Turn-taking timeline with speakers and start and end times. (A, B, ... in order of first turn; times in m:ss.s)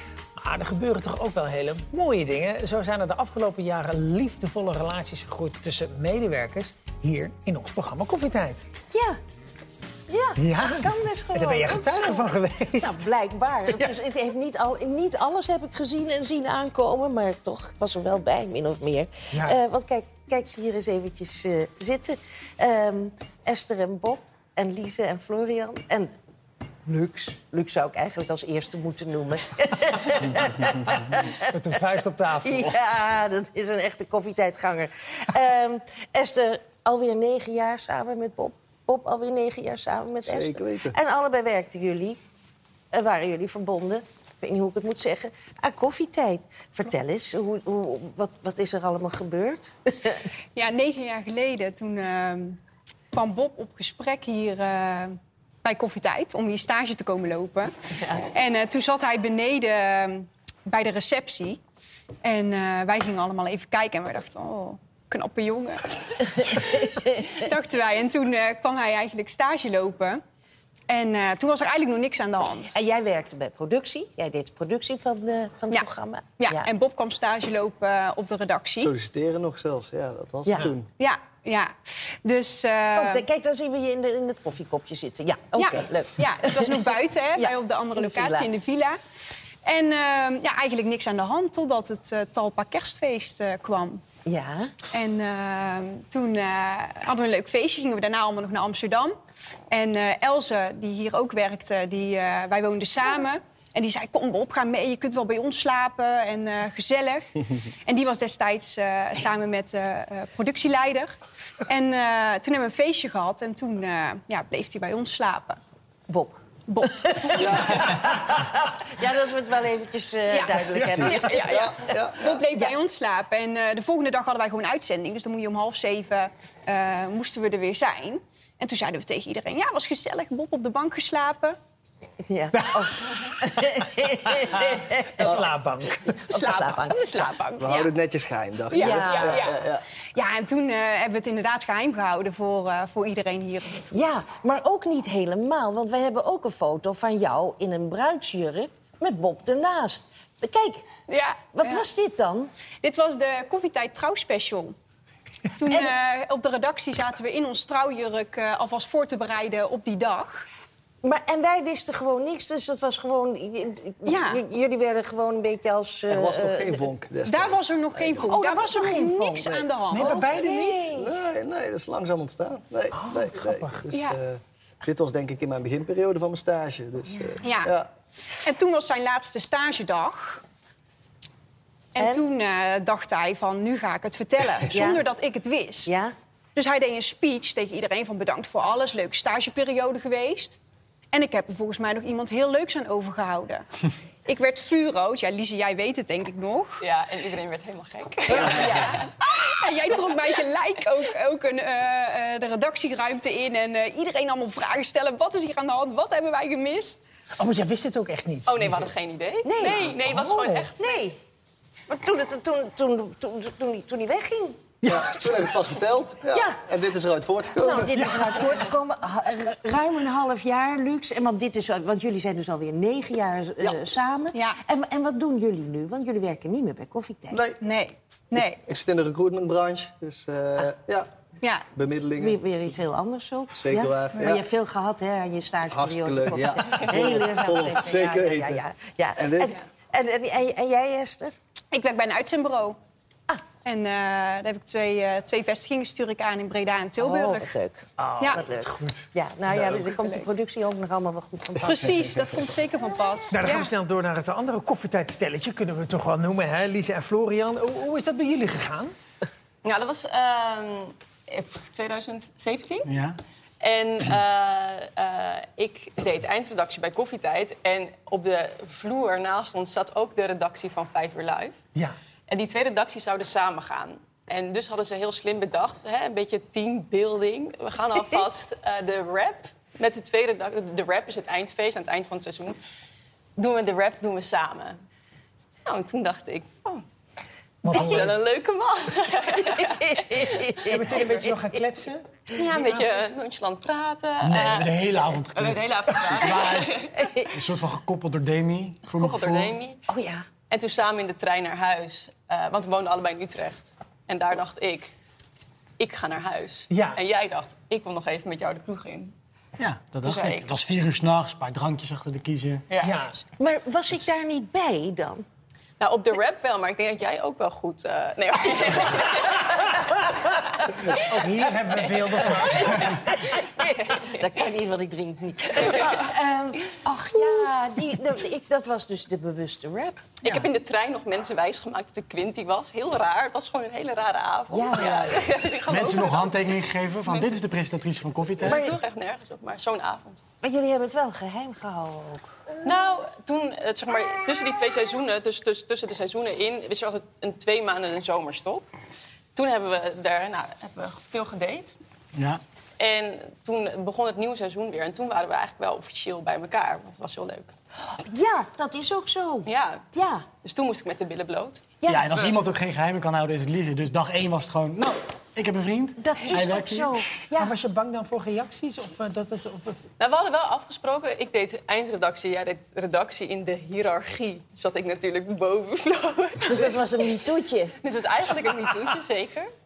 0:00.4-0:08.6 A
0:08.9-0:09.2 B
0:10.1-0:26.1 B
0:10.4-0:13.0 A
0:13.7-0:14.0 A
0:19.3-0:19.6 A
0:26.9-0:31.3 B
0:31.5-0:32.8 A
0:32.4-0:42.2 B
0:40.2-0:41.0 C
0:42.9-0:50.2 B
0:50.6-0:52.6 D
0:53.1-0:57.7 D
0:58.2-1:01.6 D
1:02.2-1:10.2 D
1:06.5-1:07.0 B
1:10.9-1:12.7 D
1:12.6-1:16.7 B
1:16.4-1:18.9 D
1:18.8-1:20.8 C
1:21.0-1:23.2 D
1:22.9-1:28.5 B
1:25.6-1:29.0 D
1:29.6-1:34.0 D
1:34.2-1:34.7 B
1:34.9-1:39.2 D
1:39.7-1:51.1 D
1:51.7-1:55.6 D
1:56.1-2:01.4 B
1:56.7-1:57.9 D
1:57.4-1:58.1 C
2:00.3-2:11.6 D
2:00.6-2:02.3 C
2:12.3-2:15.5 B
2:12.6-2:13.5 A
2:14.3-2:16.6 A
2:16.3-2:17.1 B
2:16.3-2:17.2 D
2:16.5-2:17.8 E
2:17.6-2:19.8 C
2:18.7-2:19.6 D
2:18.7-2:19.4 B
2:20.1-2:23.9 D
2:23.9-2:30.8 B
2:31.1-2:31.8 D
2:31.5-2:32.5 B
2:32.8-2:34.7 D
2:35.5-2:40.4 D
2:35.6-2:35.9 B
2:41.0-2:46.8 B
2:44.0-2:44.4 D
2:46.1-2:48.2 C
2:47.2-2:50.2 D
2:48.2-2:51.1 B
2:49.9-2:50.9 A
2:50.9-2:57.9 C
2:52.9-2:53.9 A
2:53.9-2:54.2 D
2:57.4-2:57.8 D
2:58.3-3:00.4 D
3:01.9-3:06.0 D
3:02.0-3:02.2 B
3:04.7-3:05.0 B
3:05.8-3:06.1 B
3:06.5-3:10.6 D
3:11.1-3:13.7 D
3:14.2-3:16.8 D
3:16.8-3:19.1 E
3:18.3-3:27.0 D
3:27.4-3:28.9 A
3:28.4-3:31.0 E
3:29.4-3:29.9 B
3:29.8-3:30.7 A
3:30.8-3:31.2 B
3:31.9-3:34.6 B
3:34.8-3:37.9 C
3:34.8-3:35.5 A
3:36.3-3:36.6 B
3:37.6-3:47.4 B
3:37.9-3:38.6 A
3:44.3-3:44.6 D
3:47.3-3:47.6 C
3:47.6-3:48.6 D
3:48.4-3:51.1 C
3:51.7-3:52.4 C
3:52.2-4:01.3 B
3:53.5-3:54.4 C
3:55.7-3:58.6 C
3:59.1-3:59.6 C
4:01.7-4:02.8 D
4:03.6-4:07.5 D
4:07.0-4:12.1 B
4:08.0-4:09.8 A
4:10.0-4:10.2 D
4:11.6-4:13.7 D
4:13.3-4:18.9 A
4:19.6-4:22.9 E
4:22.8-4:23.2 F
4:23.6-4:31.6 E
4:32.3-4:42.6 E
4:43.4-4:44.8 E
4:45.6-4:46.8 E
4:47.6-4:48.2 A
4:47.7-4:51.2 E
4:47.7-4:48.0 B
4:49.8-4:50.8 B
4:50.6-4:52.8 A
4:52.3-4:57.2 E
4:54.2-4:59.6 F
4:56.9-4:57.3 B
4:58.9-4:59.8 E
4:59.9-5:00.2 B
5:00.5-5:04.9 E
5:05.8-5:09.1 E
5:06.7-5:07.0 A
5:09.6-5:12.6 F
5:10.0-5:10.6 E
5:12.7-5:13.0 E
5:12.8-5:13.2 A
5:13.3-5:15.2 B
5:15.8-5:19.7 E
5:20.6-5:24.1 E
5:21.0-5:23.0 A
5:22.3-5:30.1 B
5:25.6-5:26.0 E
5:27.2-5:27.5 E
5:30.2-5:37.5 E
5:34.5-5:35.3 B
5:35.6-5:38.6 F
5:38.4-5:40.2 E
5:38.4-5:38.7 B
5:40.4-5:42.3 B
5:42.6-5:48.7 E
5:49.3-5:51.8 E
5:52.1-5:52.4 F
5:52.8-5:57.5 E
5:57.9-6:00.2 B
5:59.4-5:59.8 E
6:00.4-6:02.3 E
6:01.9-6:07.0 F
6:06.0-6:07.5 B
6:07.4-6:09.8 A
6:10.0-6:17.1 E
6:16.5-6:17.7 B
6:17.8-6:19.5 E